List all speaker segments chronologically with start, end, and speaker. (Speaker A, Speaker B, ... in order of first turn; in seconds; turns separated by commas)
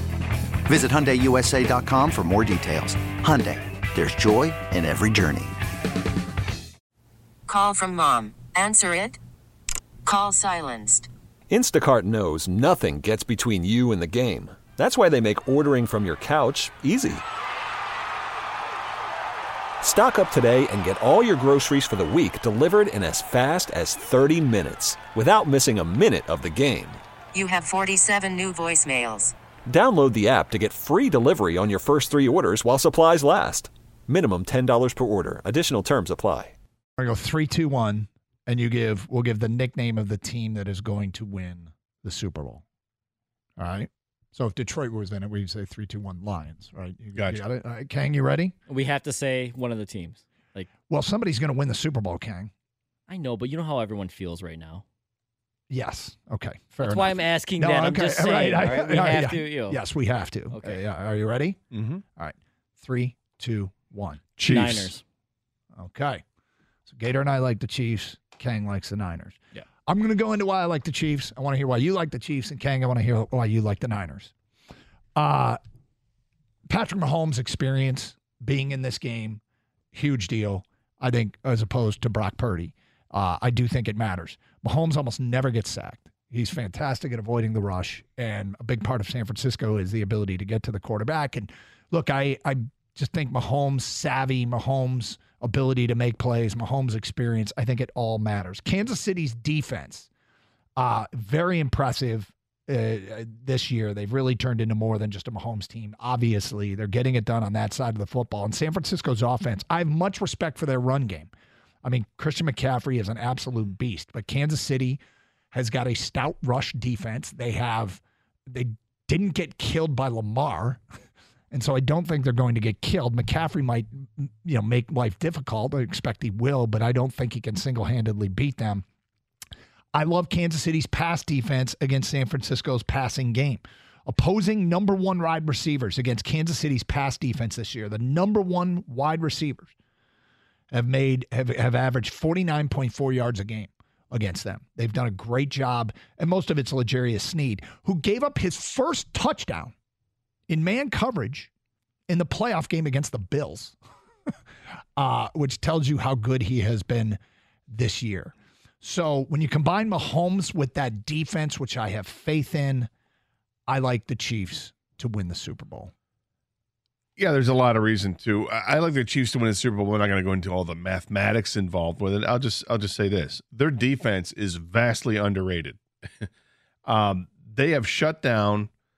Speaker A: 0.7-5.5, Speaker B: 7.5-9.2, Speaker B: 10.1-11.1, Speaker C: 11.5-17.2, Speaker C: 19.9-27.0, Speaker B: 27.3-29.3, Speaker C: 29.7-36.5, Speaker D: 37.0-42.6, Speaker D: 43.6-48.6, Speaker E: 47.1-47.4, Speaker F: 48.7-50.7, Speaker D: 50.9-52.5, Speaker F: 53.1-54.8, Speaker D: 55.7-61.6, Speaker F: 56.8-59.8, Speaker F: 60.5-60.8, Speaker E: 61.7-62.0, Speaker D: 62.2-64.2, Speaker E: 64.4-64.9, Speaker F: 64.4-65.0, Speaker D: 65.8-66.2, Speaker D: 66.9-74.3, Speaker D: 75.2-75.6, Speaker D: 76.7-79.4, Speaker D: 79.9-100.1, Speaker D: 100.8-111.3, Speaker D: 111.8-115.0, Speaker D: 115.5-118.0, Speaker D: 118.5-120.8, Speaker D: 121.5-128.8, Speaker D: 129.9-139.7, Speaker D: 140.7-149.7, Speaker D: 150.5-151.5, Speaker D: 152.1-153.8, Speaker D: 155.0-157.2, Speaker D: 157.7-162.9, Speaker D: 163.7-165.9, Speaker E: 167.2-176.3, Speaker E: 176.9-178.7